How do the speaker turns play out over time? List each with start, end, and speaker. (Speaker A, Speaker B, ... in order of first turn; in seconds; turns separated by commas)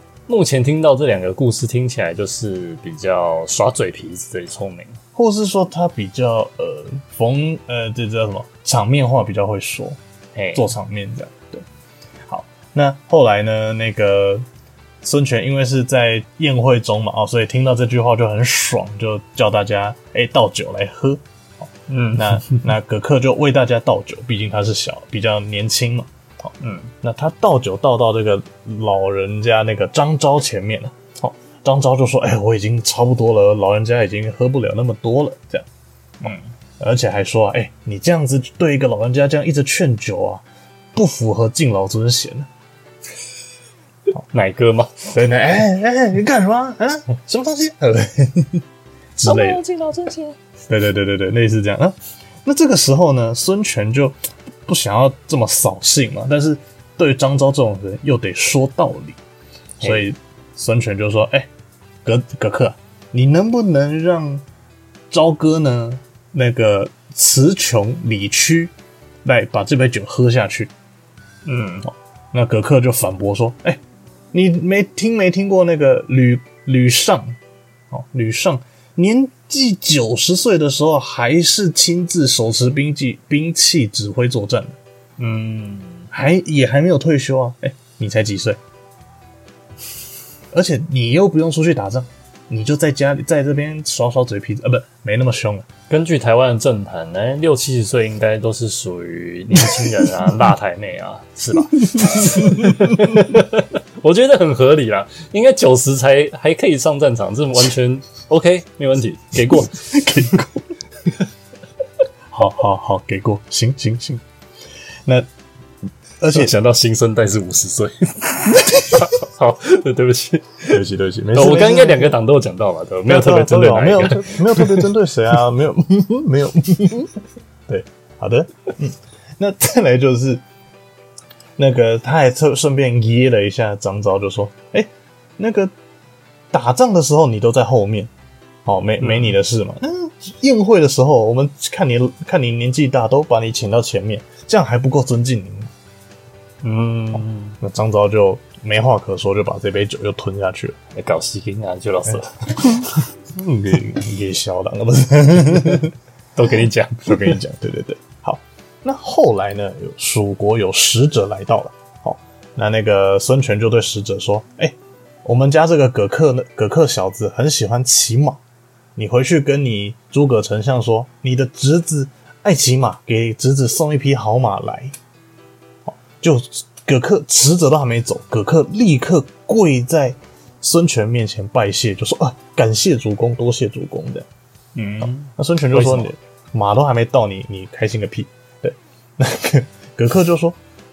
Speaker A: 0.3-5.0, Speaker B: 5.1-10.0, Speaker A: 10.3-10.6, Speaker B: 10.5-11.6, Speaker B: 12.3-14.4, Speaker B: 15.0-26.5, Speaker A: 21.9-22.7, Speaker A: 26.6-26.9, Speaker B: 27.0-35.6, Speaker A: 36.2-36.5, Speaker B: 36.2-42.5, Speaker A: 44.2-45.1, Speaker B: 45.1-48.6, Speaker B: 49.2-49.6, Speaker A: 49.2-50.4, Speaker B: 50.7-59.2, Speaker A: 59.8-60.1, Speaker B: 59.8-61.5, Speaker B: 62.0-64.4, Speaker B: 65.1-68.7, Speaker B: 69.2-70.7, Speaker A: 71.4-71.9, Speaker B: 72.3-73.8, Speaker B: 74.3-77.4, Speaker B: 77.9-84.8, Speaker A: 85.2-86.1, Speaker B: 86.1-88.6, Speaker B: 90.5-95.7, Speaker A: 95.9-109.8, Speaker B: 101.9-103.2, Speaker B: 109.5-110.6, Speaker B: 112.3-114.2, Speaker B: 116.2-116.5, Speaker A: 116.3-120.8, Speaker B: 118.7-119.0, Speaker B: 120.7-122.2, Speaker A: 121.3-124.9, Speaker B: 123.1-127.1, Speaker B: 127.7-130.4, Speaker B: 131.6-135.7, Speaker B: 136.5-138.1, Speaker B: 138.6-145.7, Speaker A: 139.0-139.3, Speaker A: 146.6-147.6, Speaker B: 147.6-150.8, Speaker A: 150.9-153.0, Speaker B: 152.1-155.9, Speaker A: 156.3-157.4, Speaker B: 157.0-168.4, Speaker B: 168.9-174.9, Speaker B: 175.8-184.3, Speaker A: 184.7-186.1, Speaker B: 185.0-190.6